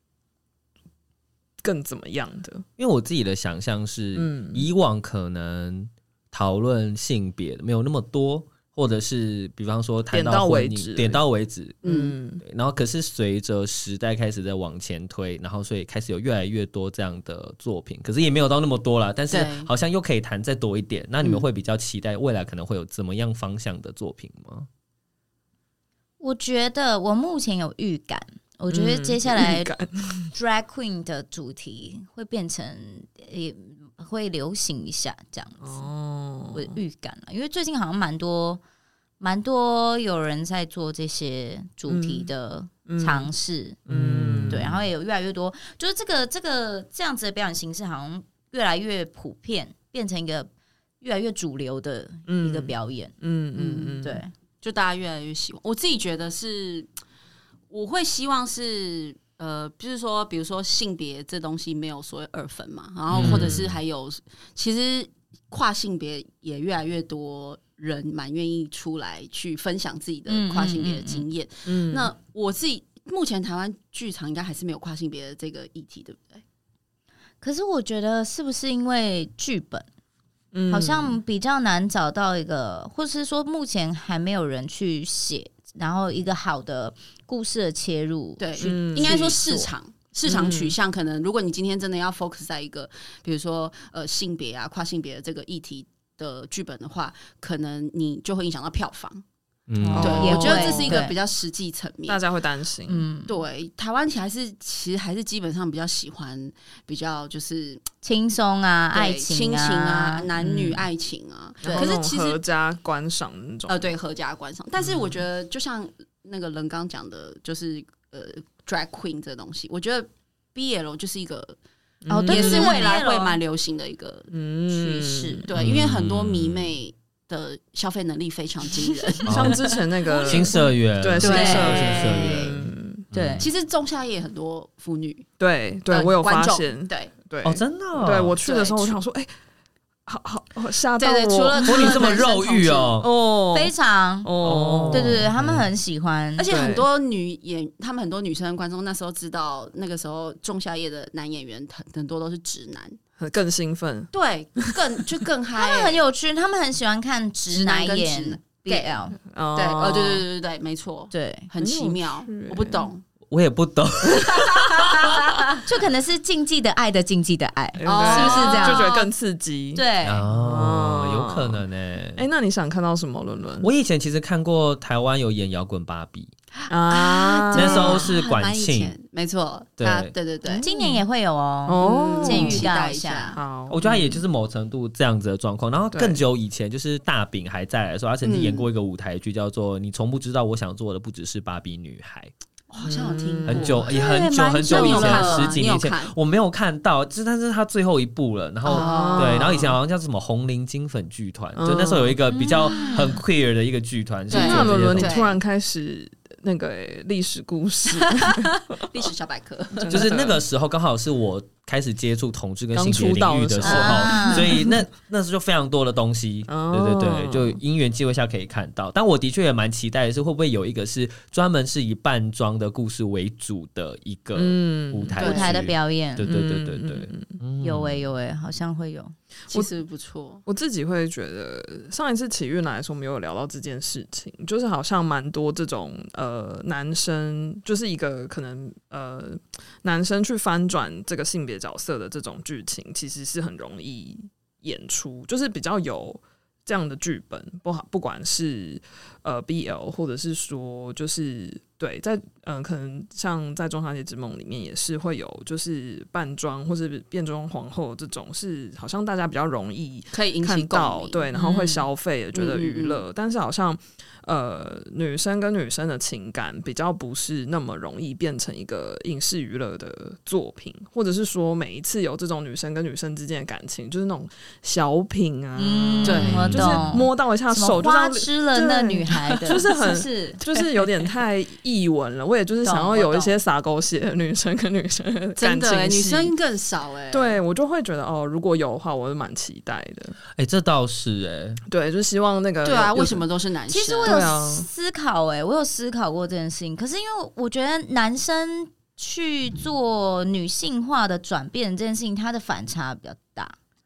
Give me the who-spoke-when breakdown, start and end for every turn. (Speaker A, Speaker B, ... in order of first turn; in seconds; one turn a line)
Speaker A: 1.6-2.6
Speaker B: 2.8-11.8
Speaker A: 4.1-4.7
Speaker A: 10.1-11.2
Speaker C: 11.8-12.2
Speaker A: 11.8-12.4
Speaker B: 12.4-24.7
Speaker C: 19.3-19.7
Speaker D: 26.2-29.7
Speaker A: 28.7-30.3
Speaker D: 30.3-35.8
Speaker A: 35.6-36.8
Speaker D: 36.5-38.6
Speaker D: 39.2-43.8
Speaker A: 41.9-42.3
Speaker A: 42.9-43.3
Speaker A: 43.9-44.6
Speaker B: 43.9-44.8
Speaker D: 44.5-50.5
Speaker D: 51.0-53.1
Speaker A: 52.2-54.2
Speaker C: 53.5-54.0
Speaker D: 54.0-54.3
Speaker C: 54.6-56.9
Speaker C: 57.7-76.4
Speaker B: 63.1-63.7
Speaker A: 63.2-63.6
Speaker D: 70.3-71.2
Speaker A: 71.7-72.1
Speaker D: 77.4-79.9
Speaker A: 80.5-81.2
Speaker D: 80.7-89.7
Speaker C: 88.4-99.2
Speaker A: 88.6-89.3
Speaker A: 90.2-90.8
Speaker B: 99.7-100.2
Speaker D: 99.8-101.2
Speaker A: 99.9-101.0
Speaker C: 100.0-102.2
Speaker A: 102.1-103.1
Speaker D: 102.9-103.3
Speaker C: 103.3-107.8
Speaker D: 108.0-110.3
Speaker C: 108.9-112.4
Speaker A: 110.4-110.8
Speaker A: 111.6-113.9
Speaker D: 111.6-111.9
Speaker C: 113.7-121.6
Speaker A: 114.8-115.2
Speaker A: 122.0-122.9
Speaker D: 122.1-123.4
Speaker C: 122.2-124.3
Speaker A: 124.3-125.5
Speaker D: 124.7-125.5
Speaker C: 125.4-130.5
Speaker B: 125.5-126.7
Speaker A: 129.2-133.1
Speaker B: 129.2-129.6
Speaker B: 130.2-132.6
Speaker C: 131.2-132.6
Speaker D: 131.3-131.8
Speaker B: 133.1-133.5
Speaker D: 133.1-133.5
Speaker C: 133.4-135.2
Speaker A: 135.4-139.3
Speaker C: 135.9-137.1
Speaker B: 137.4-138.4
Speaker C: 138.4-139.0
Speaker A: 140.1-142.2
Speaker C: 141.0-142.9
Speaker B: 141.6-143.1
Speaker A: 143.0-145.6
Speaker D: 143.5-144.3
Speaker B: 144.4-145.6
Speaker D: 144.9-146.5
Speaker C: 146.4-153.0
Speaker A: 146.5-146.9
Speaker A: 153.2-154.8
Speaker C: 154.1-156.0
Speaker D: 155.6-159.2
Speaker C: 157.5-159.0
Speaker A: 159.3-160.2
Speaker C: 159.5-163.0
Speaker D: 161.1-161.5
Speaker A: 161.6-162.9
Speaker B: 163.3-165.4
Speaker D: 165.6-169.0
Speaker A: 167.8-171.6
Speaker C: 167.8-169.0
Speaker D: 169.7-170.2
Speaker B: 170.0-172.2
Speaker A: 172.2-173.7
Speaker B: 173.6-176.3
Speaker C: 176.6-180.6
Speaker A: 176.7-178.1
Speaker B: 177.5-178.9
Speaker B: 179.8-180.1
Speaker D: 180.4-183.4
Speaker A: 180.6-181.0
Speaker A: 181.7-182.7
Speaker C: 181.8-183.4
Speaker A: 183.3-184.2
Speaker B: 183.7-192.3
Speaker A: 185.9-186.2
Speaker C: 188.2-188.7
Speaker C: 192.7-194.1
Speaker A: 192.8-193.8
Speaker B: 193.5-205.2
Speaker D: 193.9-195.6
Speaker C: 194.6-196.1
Speaker C: 198.6-199.4
Speaker A: 198.7-199.8
Speaker A: 201.5-202.2
Speaker D: 202.3-203.2
Speaker A: 204.3-208.7
Speaker C: 204.3-205.4
Speaker C: 208.7-210.1
Speaker A: 209.7-210.4
Speaker B: 209.9-228.0
Speaker A: 212.7-214.8
Speaker D: 213.6-214.5
Speaker A: 216.5-217.6
Speaker A: 224.3-225.5
Speaker C: 225.2-225.7
Speaker D: 225.2-226.3
Speaker A: 226.2-227.3
Speaker D: 227.6-229.1
Speaker C: 229.5-230.4
Speaker A: 230.4-286.3
Speaker C: 260.1-261.3
Speaker D: 261.3-261.9
Speaker C: 262.3-263.0
Speaker D: 275.5-280.6
Speaker C: 276.0-276.5
Speaker B: 276.2-276.8
Speaker D: 282.6-283.3
Speaker C: 285.4-287.4
Speaker A: 287.1-290.2
Speaker B: 290.4-291.6
Speaker A: 291.7-293.2
Speaker C: 292.6-294.2
Speaker D: 293.7-303.6
Speaker A: 294.0-294.7